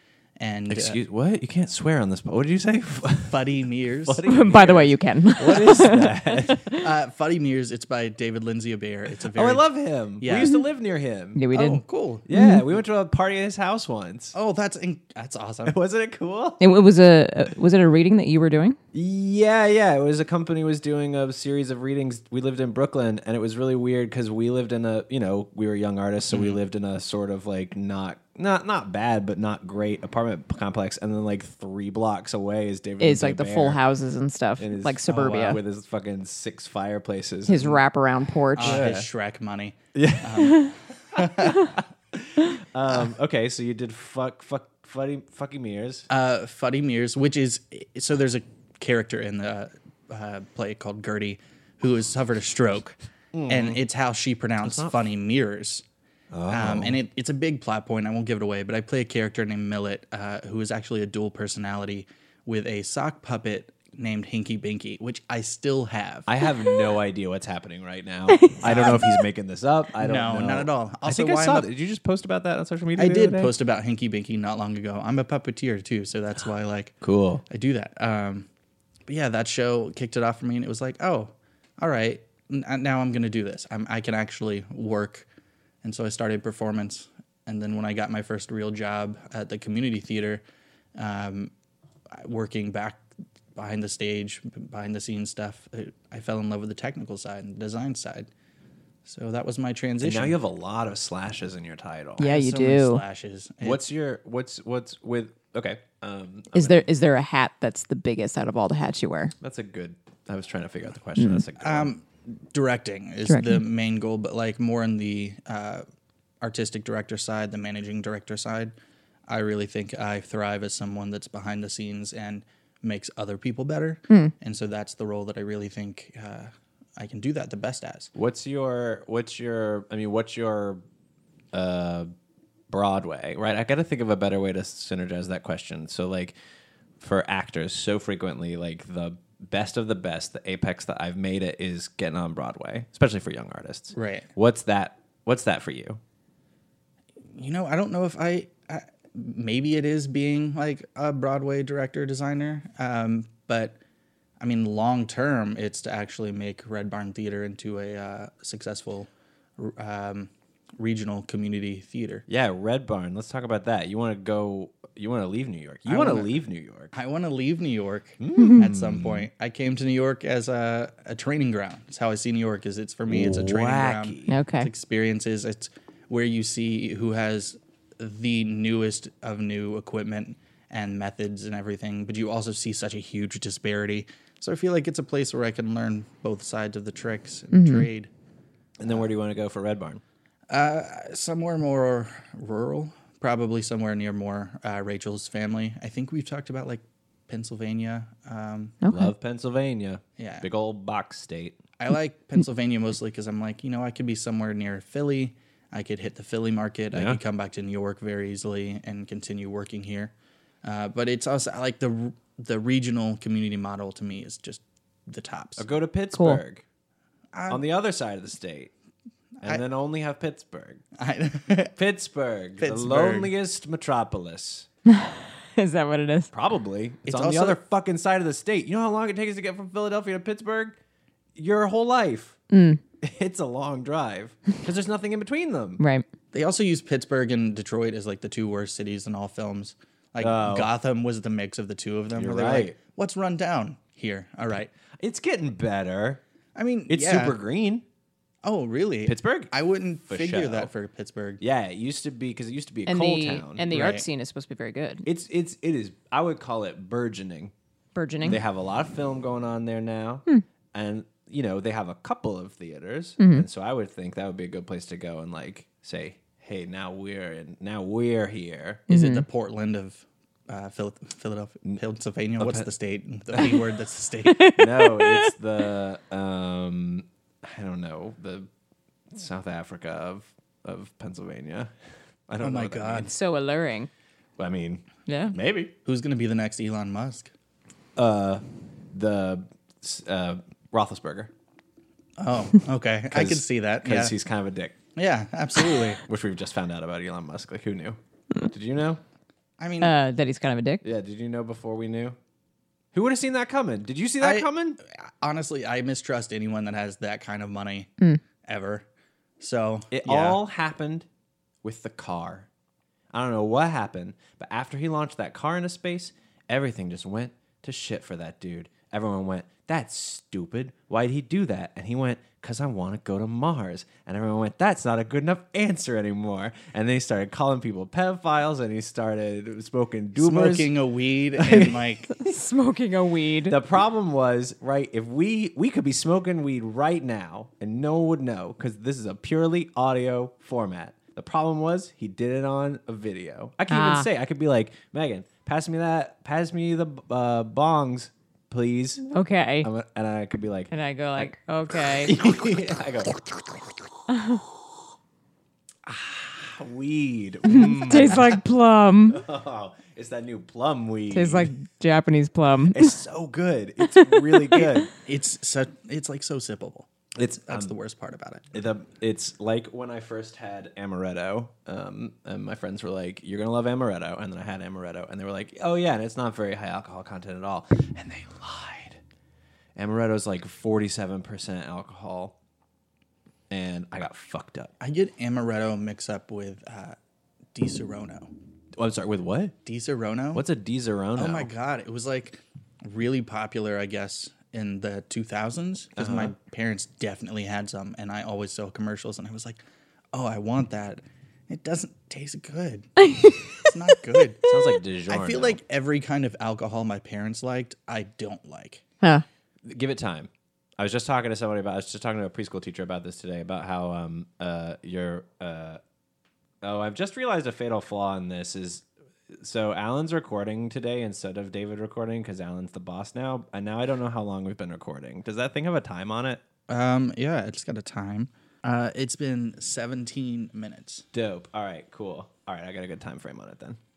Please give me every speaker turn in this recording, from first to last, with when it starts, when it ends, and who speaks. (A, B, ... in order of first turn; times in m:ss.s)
0:00.4-0:01.0 A
0:00.7-0:06.6 B
0:03.3-0:04.8 A
0:04.2-0:06.8 C
0:06.7-0:09.6 A
0:09.3-0:11.4 B
0:10.2-0:10.6 A
0:11.4-0:12.6 C
0:11.5-0:12.2 A
0:12.3-0:14.3 B
0:14.3-0:15.8 A
0:15.6-0:16.6 B
0:16.6-0:18.8 C
0:18.9-0:33.8 B
0:33.0-0:35.6 C
0:34.6-0:37.8 B
0:35.1-0:35.5 A
0:37.5-0:38.8 C
0:38.6-0:41.8 A
0:38.6-0:39.1 B
0:39.9-0:46.1 B
0:46.1-0:53.0 A
0:53.3-0:53.8 B
0:53.5-0:55.8 A
0:54.6-0:55.0 B
0:56.3-0:57.0 B
0:56.5-1:06.3 A
1:06.3-1:13.5 B
1:08.3-1:09.2 C
1:08.6-1:09.1 A
1:10.0-1:11.7 A
1:13.0-1:17.0 A
1:17.0-1:17.4 B
1:17.5-1:18.5 A
1:19.1-1:25.3 A
1:25.8-1:30.4 A
1:31.0-1:31.5 A
1:32.1-1:33.0 A
1:33.6-1:38.3 A
1:39.0-1:40.4 A
1:40.0-1:42.3 B
1:42.2-1:43.0 C
1:42.2-1:43.8 A
1:43.6-1:46.9 B
1:46.5-1:49.3 C
1:49.4-1:51.9 B
1:51.2-1:51.4 C
1:51.6-1:55.8 A
1:53.3-1:53.6 C
1:56.4-1:58.7 A
1:59.3-2:08.1 A
2:08.1-2:10.8 B
2:11.5-2:12.1 B
2:12.7-2:16.3 B
2:17.0-2:26.0 B
2:23.9-2:24.3 A
2:27.3-2:33.8 A
2:34.4-2:42.2 A
2:42.3-2:46.9 B
2:45.8-2:46.3 A
2:46.9-3:08.1 A
2:48.2-2:49.3 B
2:48.4-2:48.6 C
2:53.1-2:54.4 B
2:54.3-2:54.7 C
3:07.5-3:07.9 C
3:08.8-3:10.0 B
3:10.5-3:18.8 A
3:18.8-3:19.1 C
3:18.9-3:21.6 B
3:20.2-3:20.4 A
3:21.8-3:30.1 A
3:26.9-3:27.2 B
3:30.6-3:35.6 A
3:35.6-3:36.6 B
3:36.1-3:36.4 C
3:37.3-3:37.6 A
3:37.5-3:38.7 B
3:39.4-3:40.8 B
3:41.0-3:41.8 A
3:41.8-3:44.7 B
3:42.6-3:43.3 A
3:44.9-3:46.3 C
3:46.3-3:50.8 B
3:47.0-3:47.6 A
3:51.4-3:52.4 B
3:52.5-3:52.8 C
3:53.0-3:55.8 B
3:55.8-3:56.0 C
3:56.3-4:04.7 A
4:00.2-4:00.7 B
4:02.1-4:02.8 B
4:05.0-4:06.2 B
4:06.6-4:07.4 A
4:06.9-4:07.8 B
4:08.4-4:11.4 A
4:09.0-4:09.5 B
4:10.1-4:10.7 B
4:11.4-4:13.7 B
4:12.9-4:15.0 C
4:13.7-4:14.1 A
4:15.0-4:17.5 B
4:17.9-4:18.4 C
4:18.2-4:28.9 B
4:23.2-4:23.4 C
4:28.9-4:29.2 C
4:28.9-4:34.5 A
4:32.4-4:32.7 B
4:34.3-4:35.3 C
4:34.5-4:38.5 B
4:39.1-4:41.7 B
4:42.3-4:43.1 B
4:42.4-4:43.1 A
4:43.0-4:43.9 C
4:44.4-4:45.7 B
4:45.1-4:45.3 C
4:45.8-4:47.3 A
4:48.0-4:51.3 B
4:52.2-4:54.1 A
4:53.1-4:54.7 B
4:55.0-4:56.0 A
4:56.0-4:59.0 B
4:59.6-4:59.9 A
4:59.8-5:00.8 C
5:00.8-5:02.2 B
5:02.9-5:04.8 B
5:04.2-5:07.9 A
5:08.4-5:08.8 A
5:09.4-5:10.4 A
5:09.9-5:11.1 B
5:11.6-5:12.5 B
5:13.1-5:30.7 B
5:30.2-5:32.1 A
5:31.4-5:31.8 B
5:32.1-5:33.6 C
5:33.4-5:49.0 B
5:43.7-5:44.1 C
5:49.1-5:49.7 C
5:49.6-5:51.3 B
5:50.7-5:52.2 C
5:52.0-5:53.4 B
5:54.1-5:54.4 C
5:55.8-5:58.4 B
5:57.4-5:59.2 C
5:59.1-6:01.5 B
6:01.1-6:03.0 C
6:02.7-6:04.9 B
6:03.8-6:04.9 C
6:05.0-6:08.6 A
6:07.2-6:07.7 B
6:08.5-6:19.0 B
6:19.8-6:22.3 B
6:23.5-6:24.7 B
6:24.8-6:27.0 A
6:27.5-6:28.3 A
6:28.8-6:29.5 B
6:29.6-6:30.4 A
6:30.3-6:31.5 B
6:31.2-6:39.6 A
6:36.0-6:36.3 B
6:40.1-6:42.9 A
6:43.0-6:43.7 C
6:43.6-6:44.4 A
6:44.4-6:45.6 B
6:45.1-6:48.8 A
6:49.6-6:55.8 B
6:56.6-7:06.4 B
7:06.7-7:11.0 A
7:11.1-7:13.8 B